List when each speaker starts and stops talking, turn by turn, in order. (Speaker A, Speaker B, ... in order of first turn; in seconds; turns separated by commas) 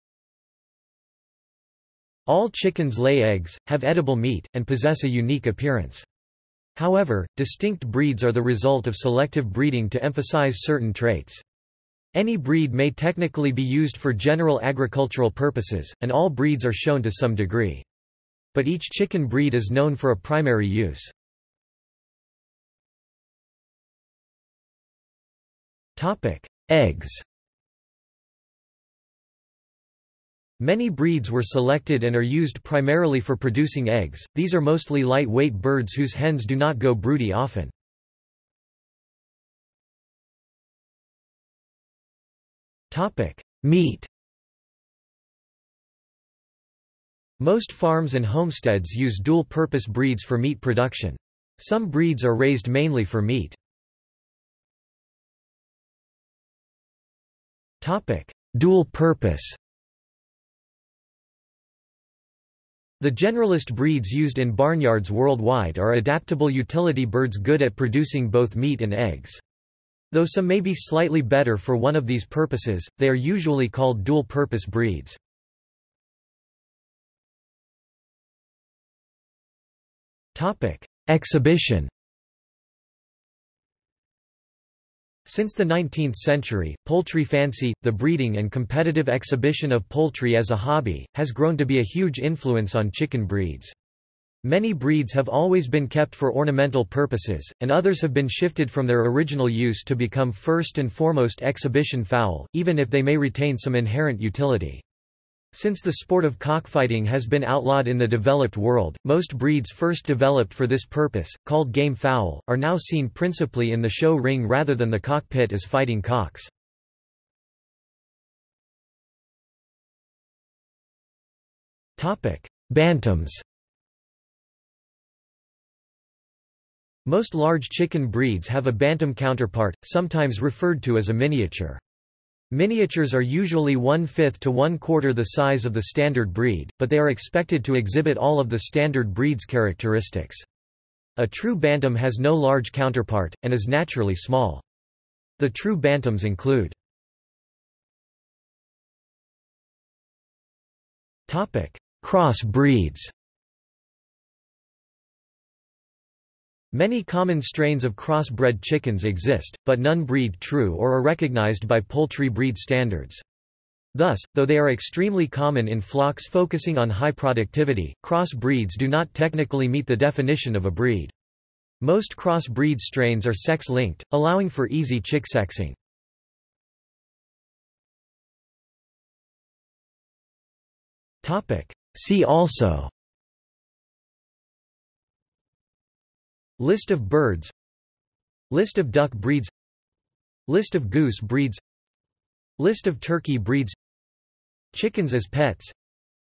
Speaker A: 2.2-6.0, Speaker A: 6.7-11.4, Speaker A: 12.1-17.9, Speaker A: 18.5-21.1, Speaker A: 25.9-27.2, Speaker A: 30.6-37.7, Speaker A: 42.9-44.1, Speaker A: 47.4-53.6, Speaker A: 57.8-59.6, Speaker A: 63.0-69.4, Speaker A: 70.1-75.2, Speaker A: 80.3-81.9, Speaker A: 85.2-93.7, Speaker A: 94.4-104.8, Speaker A: 105.5-116.5, Speaker A: 122.0-123.4, Speaker A: 127.0-131.8, Speaker A: 132.5-140.4, Speaker A: 141.2-144.6, Speaker A: 145.4-146.7, Speaker A: 151.3-153.1, Speaker A: 156.7-163.2, Speaker A: 163.9-171.1, Speaker A: 171.8-175.8, Speaker A: 181.2-182.9, Speaker A: 186.6-187.5, Speaker A: 188.5-189.5, Speaker A: 190.5-191.6, Speaker A: 192.6-193.8, Speaker A: 194.7-195.7